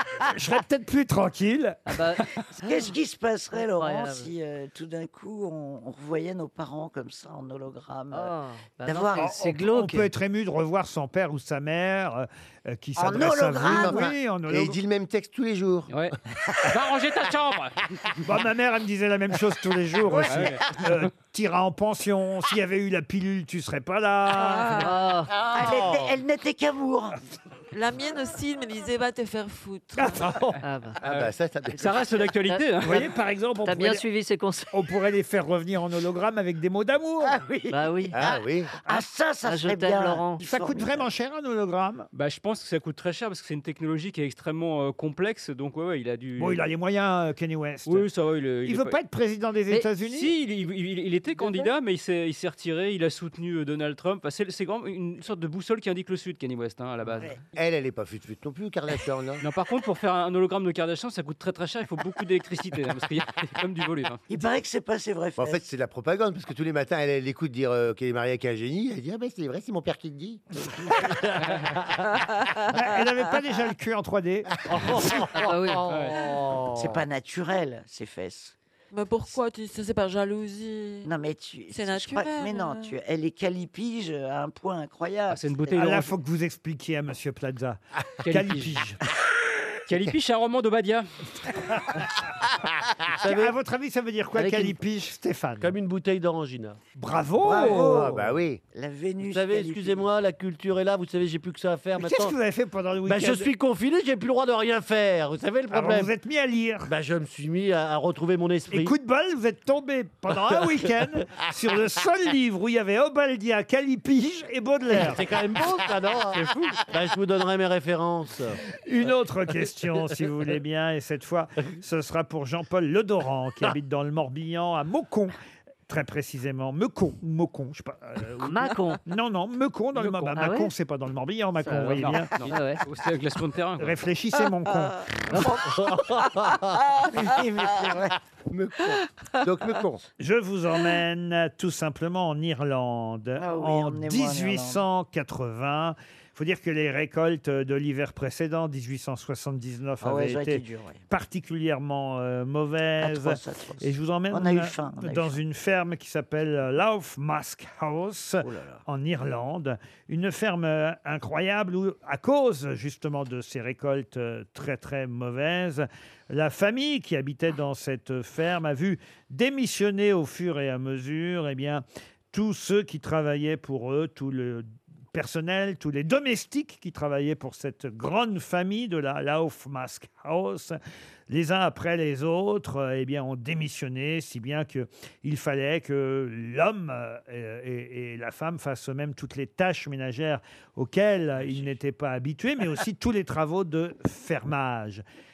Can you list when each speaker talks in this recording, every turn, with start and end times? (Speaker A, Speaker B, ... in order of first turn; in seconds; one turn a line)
Speaker A: 0.2-1.9
Speaker B: 1.9-2.9
Speaker C: 2.5-8.3
Speaker B: 3.5-4.3
Speaker B: 8.1-10.1
Speaker C: 8.8-9.5
Speaker A: 9.2-14.8
Speaker C: 13.0-14.1
Speaker D: 13.6-15.9
Speaker E: 15.9-18.1
Speaker A: 18.2-24.9
Speaker E: 20.2-20.8
Speaker F: 24.4-24.9
Speaker B: 24.7-25.4
Speaker C: 25.5-27.2
Speaker F: 27.7-30.3
Speaker A: 30.0-30.2
Speaker B: 30.6-31.0
Speaker E: 31.0-33.0
Speaker D: 31.0-32.2
Speaker A: 32.8-34.0
Speaker B: 33.6-34.7
Speaker A: 34.7-37.4
Speaker C: 37.2-41.1
Speaker B: 37.7-38.2
Speaker D: 38.1-38.7
Speaker B: 39.4-40.4
Speaker A: 40.4-42.1
Speaker E: 42.1-46.6
Speaker A: 46.4-48.1
Speaker E: 47.9-49.0
Speaker A: 48.6-50.3
Speaker E: 50.0-57.3
Speaker C: 51.4-51.7
Speaker D: 57.5-59.4
Speaker E: 59.4-64.2
Speaker C: 64.3-65.6
Speaker D: 65.4-70.4
Speaker G: 71.1-71.6
Speaker A: 72.7-74.7
Speaker G: 74.7-77.0
Speaker B: 75.4-75.8
Speaker E: 75.9-76.2
Speaker C: 76.7-78.5
Speaker F: 78.9-81.1
Speaker C: 81.0-86.0
Speaker F: 81.7-83.0
Speaker E: 85.3-86.1
Speaker A: 85.8-89.0
Speaker E: 88.2-88.9
Speaker E: 89.9-91.1
Speaker G: 93.1-93.5
Speaker A: 93.2-95.7
Speaker B: 94.3-94.8
Speaker G: 95.6-96.8
Speaker A: 97.0-98.1
Speaker C: 97.4-100.0
Speaker D: 97.7-98.6
Speaker G: 99.3-102.3
Speaker A: 102.0-103.5
Speaker G: 103.0-106.1
Speaker A: 105.7-106.9
Speaker G: 106.8-108.9
Speaker A: 108.7-115.4
Speaker G: 114.9-118.6
Speaker E: 116.4-116.7
Speaker A: 118.7-125.3
Speaker A: 125.9-132.5
Speaker B: 128.4-129.0
Speaker B: 130.0-130.7
Speaker B: 131.6-132.8
Speaker E: 131.7-134.0
Speaker A: 133.8-135.4
Speaker G: 135.6-136.7
Speaker C: 137.1-138.1
Speaker D: 138.5-140.0
Speaker A: 140.2-180.8
Speaker C: 143.4-144.8
Speaker C: 150.0-151.0
Speaker C: 153.0-155.4
Speaker C: 158.4-158.8
Speaker A: 181.3-195.0